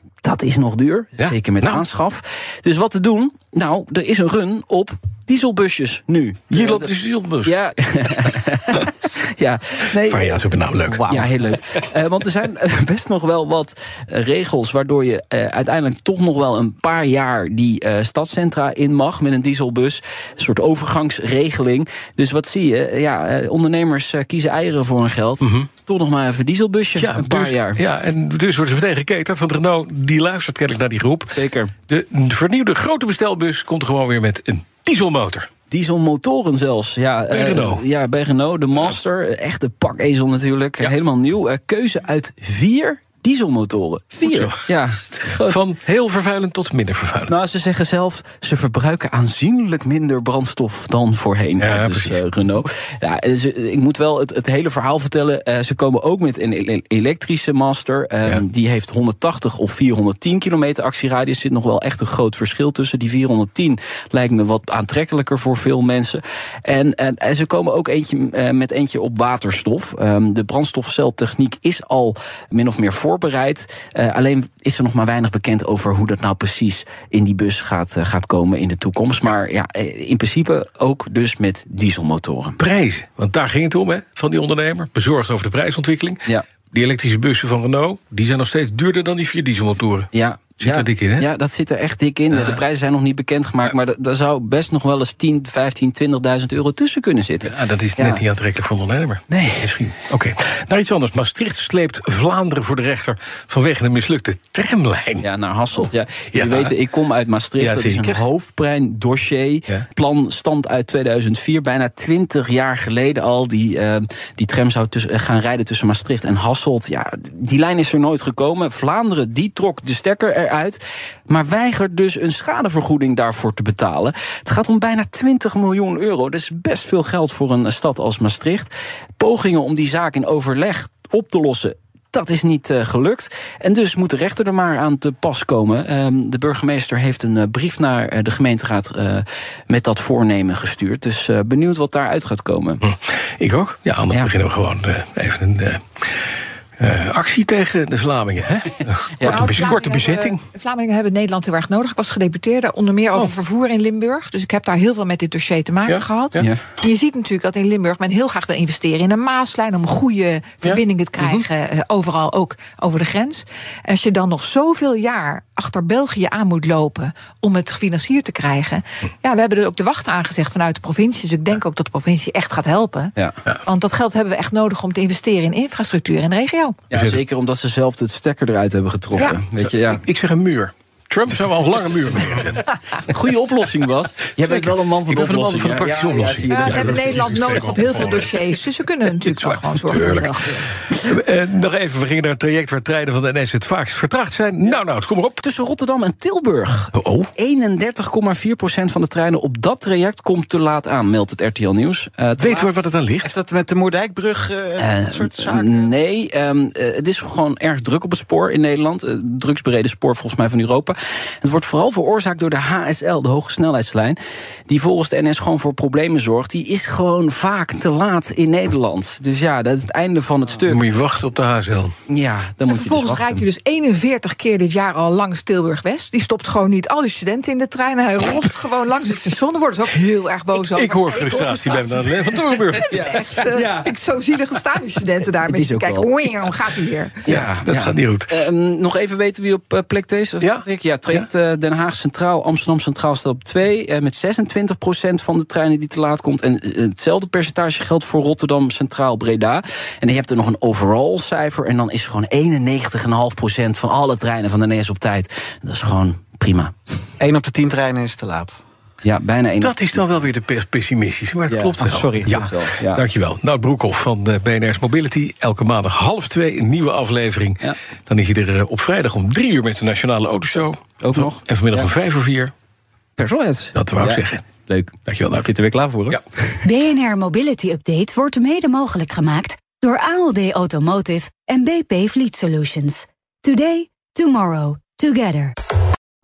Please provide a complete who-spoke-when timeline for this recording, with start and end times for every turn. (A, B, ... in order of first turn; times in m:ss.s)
0:00.2-0:10.4 A
0:01.2-0:01.8 B
0:06.5-0:07.5 B
0:10.0-0:11.3 B
0:11.0-0:27.8 A
0:25.4-0:25.7 B
0:27.0-0:31.4 B
0:31.3-0:31.7 A
0:31.9-0:35.5 B
0:35.7-0:45.6 A
0:37.3-0:37.8 B
0:44.2-0:44.7 B
0:45.4-0:47.3 B
0:47.3-1:22.6 A
0:51.6-0:52.2 B
1:22.6-1:31.3 B
1:30.1-1:38.2 A
1:32.3-1:32.6 B
1:37.4-1:45.3 B
1:39.3-1:39.6 A
1:45.2-2:22.8 A
1:46.3-1:46.7 B
1:47.6-1:48.2 B
2:22.8-2:26.3 B
2:26.8-2:30.4 B
2:29.2-2:29.6 A
2:29.2-2:53.1 C
2:35.9-2:36.5 B
2:40.6-2:41.4 B
2:53.6-2:56.8 C
2:56.9-3:00.0 A
2:56.9-2:57.2 B
2:59.6-3:02.7 B
3:03.0-3:07.8 A
3:04.4-3:08.3 B
3:06.5-3:10.7 C
3:09.2-3:10.4 B
3:10.9-3:15.4 B
3:15.4-3:22.6 A
3:16.9-3:17.3 B
3:22.4-3:23.3 B
3:23.2-3:25.9 D
3:24.8-3:40.8 A
3:40.6-3:41.9 B
3:42.1-3:43.4 A
3:42.7-3:51.0 C
3:50.6-3:53.2 B
3:52.9-3:53.9 A
3:53.1-3:57.2 C
3:55.4-3:56.5 A
3:57.2-4:16.7 A
3:57.2-3:58.4 B
4:00.4-4:01.3 B
4:17.2-4:18.6 D
4:19.0-4:20.0 A
4:19.6-4:32.5 B
4:21.5-4:23.0 A
4:21.9-4:22.4 D
4:31.0-4:31.9 A
4:33.2-4:36.7 A
4:33.7-4:34.4 B
4:35.1-4:35.5 B
4:36.6-4:45.5 E